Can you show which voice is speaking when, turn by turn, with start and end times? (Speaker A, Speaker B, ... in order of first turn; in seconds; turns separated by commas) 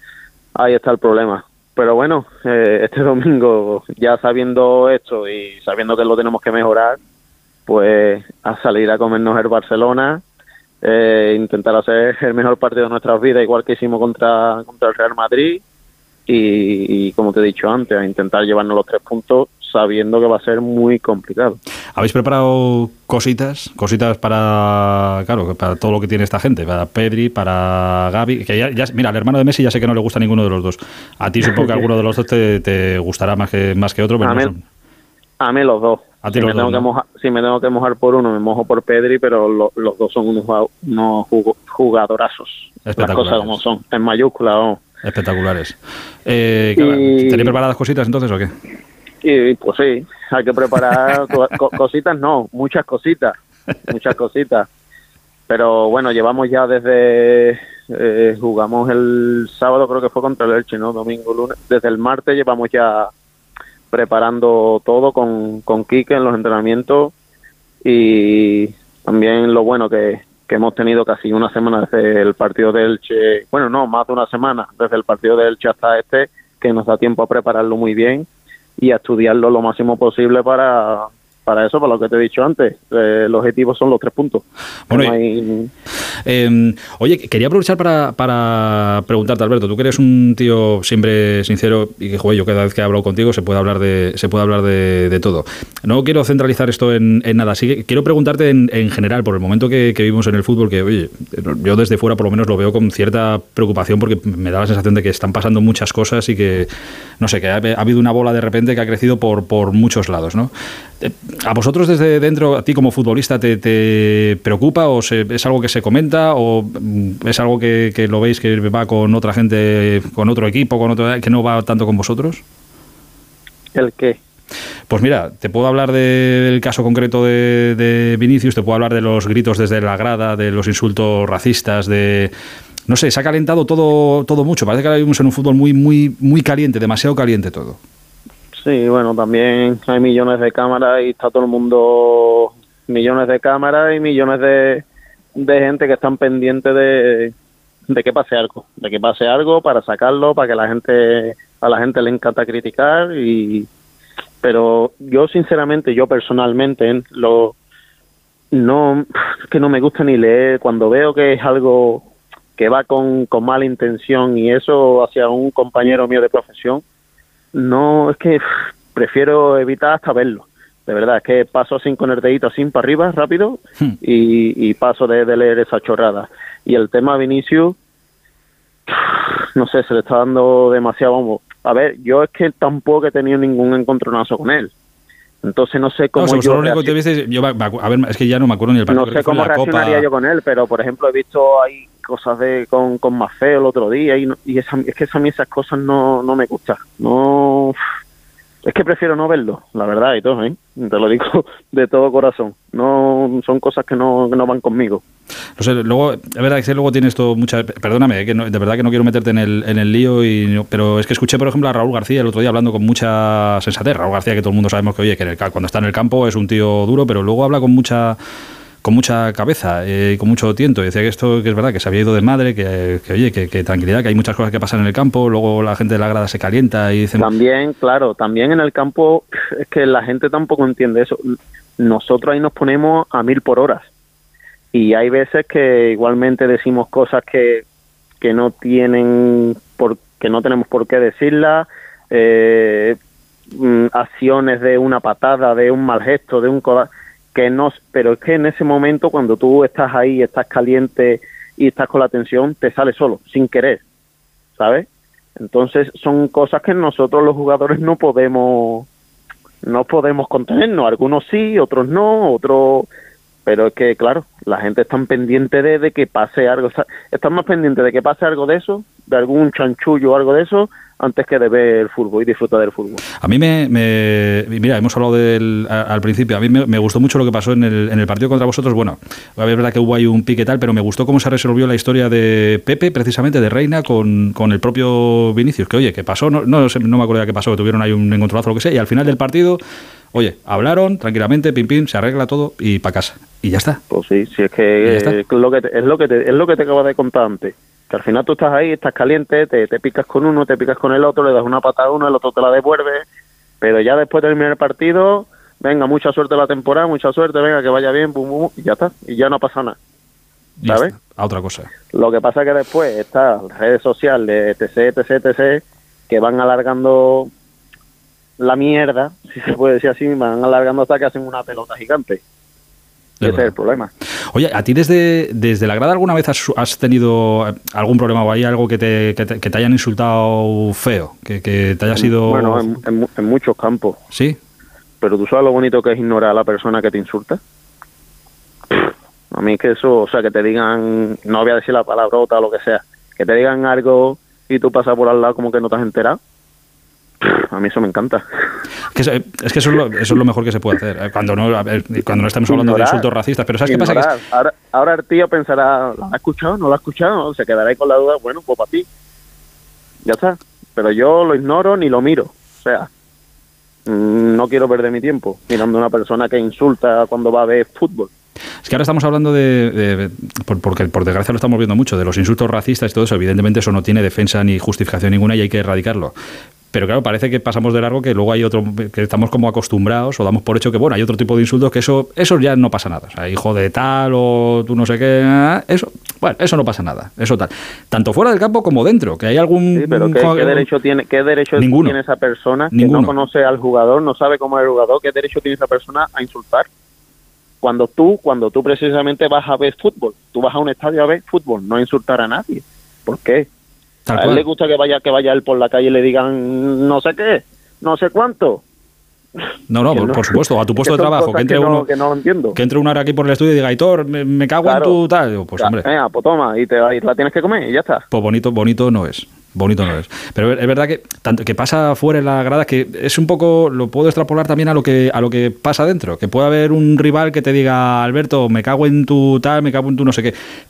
Speaker A: 0.5-7.0, Speaker A: 7.7-10.2, Speaker A: 10.8-15.6, Speaker A: 16.3-21.6, Speaker B: 21.9-34.6, Speaker A: 34.2-34.5, Speaker A: 35.4-44.8, Speaker B: 36.2-36.9, Speaker B: 42.9-43.6, Speaker B: 45.0-48.5, Speaker A: 46.8-47.6, Speaker A: 49.2-54.7, Speaker A: 55.5-63.1, Speaker A: 63.9-67.1, Speaker A: 67.8-85.7, Speaker B: 84.9-85.2, Speaker B: 86.2-110.5, Speaker B: 111.0-122.4, Speaker A: 123.7-124.2, Speaker B: 124.9-132.3, Speaker B: 132.9-137.8, Speaker A: 138.6-144.8, Speaker A: 145.4-147.3, Speaker A: 147.9-153.7, Speaker A: 154.4-157.6, Speaker A: 158.5-162.1, Speaker A: 162.6-166.8, Speaker A: 167.5-177.8, Speaker A: 178.9-184.7, Speaker A: 185.4-186.9, Speaker B: 186.1-190.1, Speaker A: 188.9-197.8, Speaker A: 198.6-205.0, Speaker B: 205.6-218.2, Speaker B: 218.8-227.3, Speaker A: 227.2-233.9, Speaker A: 234.7-237.6, Speaker A: 238.2-243.0, Speaker A: 243.5-253.8, Speaker A: 254.6-258.9, Speaker A: 259.6-262.9, Speaker A: 263.4-273.0, Speaker B: 273.2-289.6, Speaker B: 290.1-293.8, Speaker A: 293.9-303.1, Speaker B: 294.8-295.1, Speaker A: 303.6-309.8, Speaker B: 310.6-311.7, Speaker A: 310.6-310.9, Speaker A: 311.9-317.3, Speaker A: 318.4-322.2, Speaker B: 323.2-323.5, Speaker A: 323.2-323.9, Speaker B: 324.3-332.7, Speaker A: 331.9-334.0, Speaker B: 334.1-334.4, Speaker A: 335.0-337.4, Speaker A: 339.3-346.2, Speaker A: 347.2-348.2, Speaker B: 348.9-354.1, Speaker A: 352.5-353.1, Speaker A: 353.6-358.9, Speaker A: 360.0-362.9, Speaker A: 363.9-368.1, Speaker B: 368.6-376.1, Speaker B: 376.7-390.7, Speaker A: 389.8-396.7, Speaker B: 391.6-392.0, Speaker B: 392.7-393.1, Speaker A: 397.6-403.5, Speaker B: 404.1-404.4, Speaker A: 404.1-408.6, Speaker B: 409.7-411.9, Speaker A: 409.9-412.6, Speaker B: 412.6-415.8, Speaker A: 414.6-415.0, Speaker A: 415.6-418.0, Speaker B: 418.1-430.3